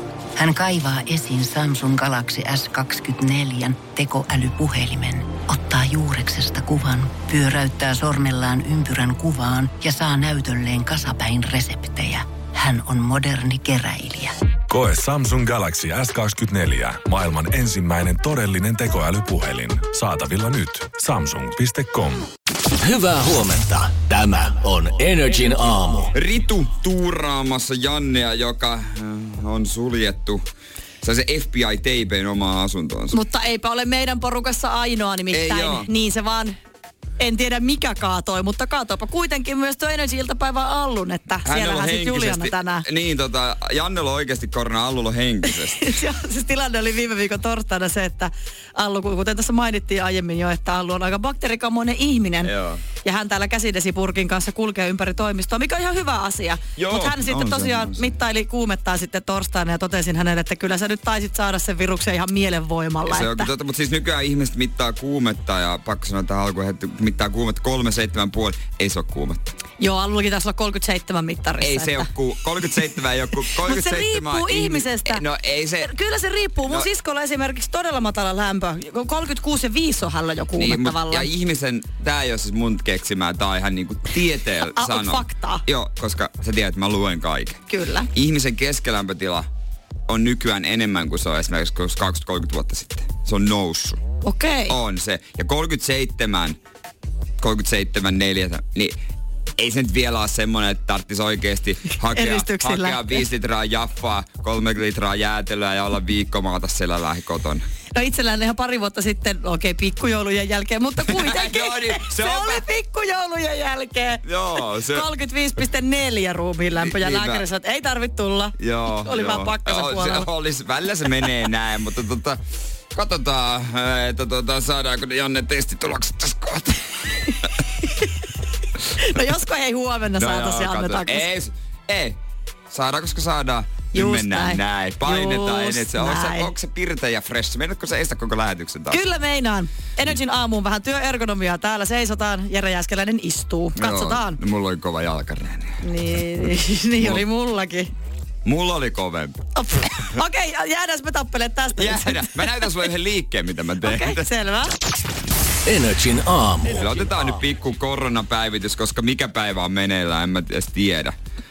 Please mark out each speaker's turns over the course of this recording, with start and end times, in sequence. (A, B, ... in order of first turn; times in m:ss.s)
0:00.4-0:14.4 A
0:14.7-0:22.3 B
0:22.8-0:26.1 C
0:26.1-0:30.4 D
0:31.0-0:33.1 D
0:33.1-0:36.6 E
0:35.3-0:35.9 D
0:37.2-0:42.8 E
0:41.4-0:46.0 D
0:45.8-0:52.5 E
0:52.4-0:52.8 D
0:53.0-1:03.5 E
0:56.8-0:58.1 D
1:03.0-1:09.5 D
1:09.8-1:12.1 E
1:11.6-1:15.9 D
1:13.5-1:15.2 E
1:15.8-1:21.3 E
1:20.6-1:27.6 D
1:24.7-1:25.6 E
1:27.7-1:28.1 E
1:28.1-1:29.5 D
1:30.1-1:34.0 D
1:34.2-1:34.8 E
1:34.7-1:36.6 D
1:37.4-1:39.0 D
1:39.6-1:47.6 D
1:42.0-1:43.2 E
1:47.9-2:00.3 E
1:51.1-1:52.6 D
1:54.2-1:55.1 D
1:56.8-1:57.4 D
1:58.6-2:02.4 D
2:02.9-2:06.9 D
2:08.9-2:11.2 E
2:10.2-2:12.2 D
2:12.7-2:19.0 D
2:13.9-2:16.5 E
2:18.9-2:24.4 E
2:23.8-2:25.8 D
2:25.8-2:27.9 E
2:28.4-2:29.4 D
2:29.6-2:32.6 E
2:31.8-2:34.3 D
2:33.8-2:34.7 E
2:35.6-2:37.3 C
2:36.7-2:41.1 D